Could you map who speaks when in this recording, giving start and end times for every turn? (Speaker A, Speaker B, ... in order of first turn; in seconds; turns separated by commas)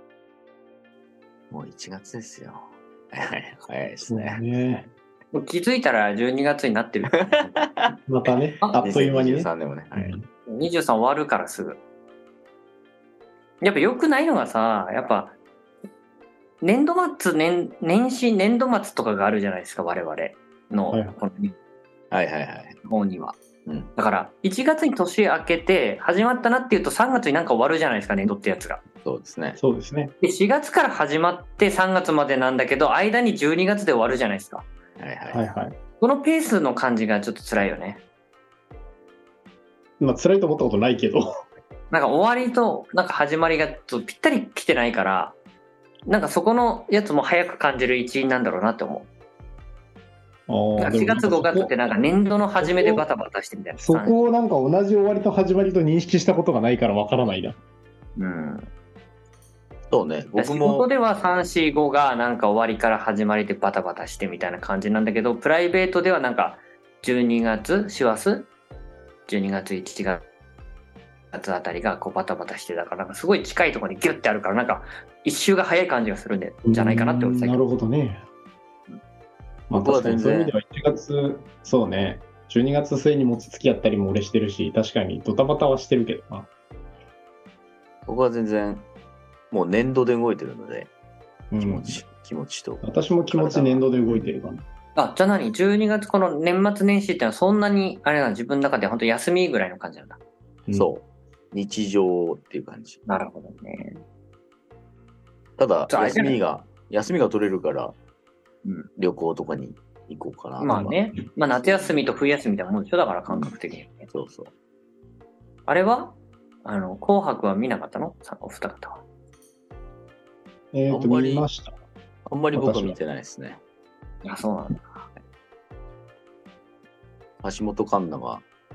Speaker A: 1.5-4.4, Speaker B: 4.1-4.9, Speaker C: 5.3-7.6, Speaker A: 7.5-7.9, Speaker B: 8.1-10.2, Speaker A: 8.7-10.1, Speaker C: 10.5-11.8, Speaker C: 13.6-15.3, Speaker C: 16.6-21.5, Speaker B: 20.9-21.2, Speaker A: 22.1-22.7, Speaker C: 22.9-23.4, Speaker C: 23.9-28.8, Speaker A: 29.0-29.6, Speaker B: 29.6-30.1, Speaker C: 30.2-34.6, Speaker A: 35.0-35.4, Speaker B: 35.3-35.7, Speaker C: 36.0-38.0, Speaker B: 40.0-41.2, Speaker C: 41.9-45.4, Speaker C: 46.0-49.1, Speaker B: 50.5-51.7, Speaker C: 50.8-54.1, Speaker B: 52.6-53.0, Speaker B: 53.8-57.6, Speaker C: 58.1-58.6, Speaker A: 59.9-60.9, Speaker C: 60.3-68.5, Speaker C: 69.3-70.2, Speaker C: 71.3-77.6, Speaker B: 76.6-78.2, Speaker B: 79.7-86.5, Speaker A: 79.7-80.5, Speaker A: 88.1-88.9, Speaker A: 89.5-90.9, Speaker B: 91.5-92.0, Speaker A: 91.6-94.3, Speaker B: 92.8-94.6, Speaker C: 94.9-100.2, Speaker A: 100.7-103.0, Speaker C: 103.1-104.0, Speaker A: 105.6-107.9, Speaker C: 105.9-106.4, Speaker A: 109.0-111.0, Speaker C: 110.6-114.1, Speaker A: 114.1-114.5, Speaker C: 115.7-119.0, Speaker B: 120.7-121.7, Speaker A: 120.9-121.5, Speaker A: 122.3-123.6, Speaker B: 122.5-123.0, Speaker C: 124.2-125.0, Speaker A: 127.4-128.4